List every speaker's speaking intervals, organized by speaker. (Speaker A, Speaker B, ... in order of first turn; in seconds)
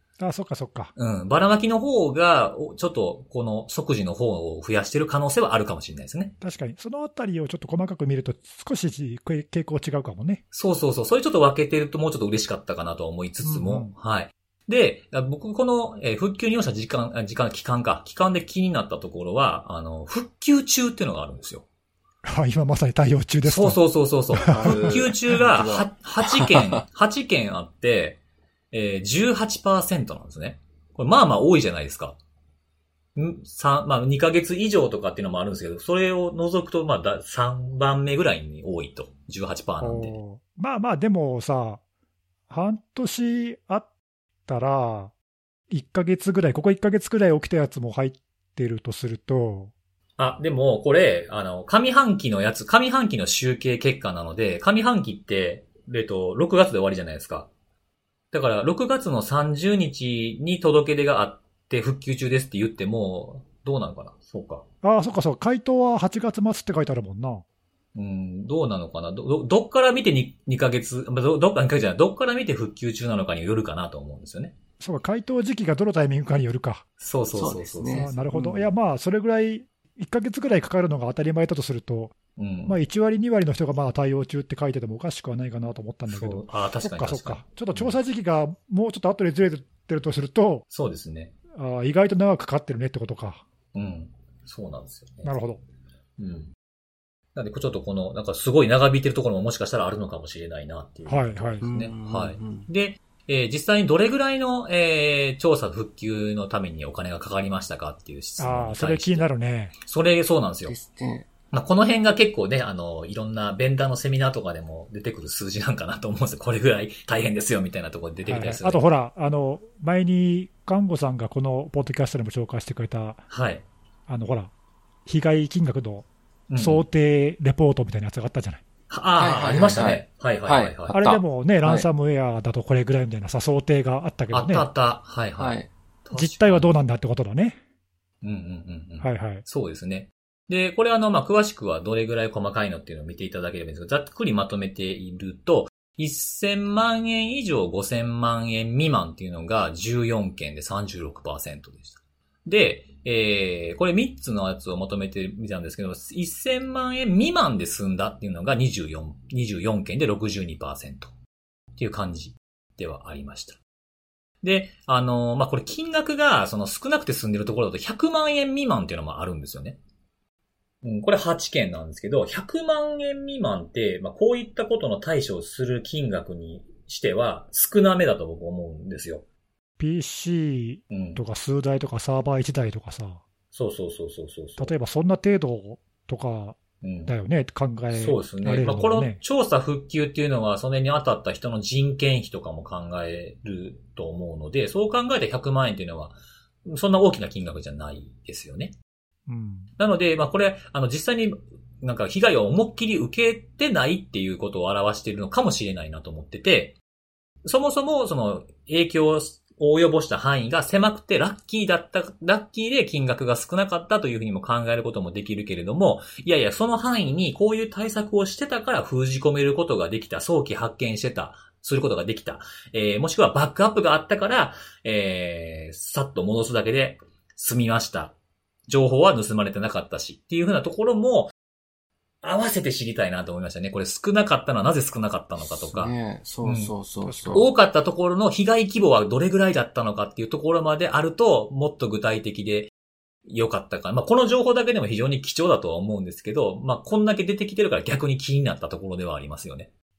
Speaker A: 0.2-0.9, 6.4-10.4, 13.4-13.9, 22.2-23.8, 24.4-25.0, 39.8-41.8, 42.5-43.9, 44.5-45.1, 45.7-49.7, 64.8-67.4, 74.8-76.8, 77.9-82.2, 82.7-90.7, 91.5-93.4, 95.2-95.6, 101.1-101.6, 108.4-109.7, 118.3-123.2, 124.1-124.5, 125.1-128.6, 130.9-134.7, 136.1-137.6, 139.0-139.4, 179.8-183.2, 184.6-189.2, 199.3-199.7, 237.0-237.5
Speaker B: 1.0-6.3, 10.5-21.6, 23.4-28.2, 28.7-32.2, 33.2-40.2, 50.2-57.5, 58.3-64.6, 68.0-74.5, 77.0-78.2, 82.4-82.8, 86.1-88.0, 90.7-91.3, 93.7-95.3, 96.2-96.5, 97.3-109.3, 109.8-110.8, 111.5-118.8, 123.3-123.7, 126.5-126.9, 128.9-131.0, 134.3-136.7, 138.2-161.1, 161.8-163.6, 164.4-169.8, 170.8-179.2, 180.9-181.2, 183.5-184.7, 186.8-187.1, 187.9-198.7, 199.8-206.8, 207.4-228.2, 228.7-231.3, 232.2-236.8, 237.3-242.7, 243.3-249.7
Speaker C: 24.4-26.8, 77.3-78.7, 101.6-102.7, 110.7-111.3, 129.2-131.9, 135.4-135.7, 235.4-237.5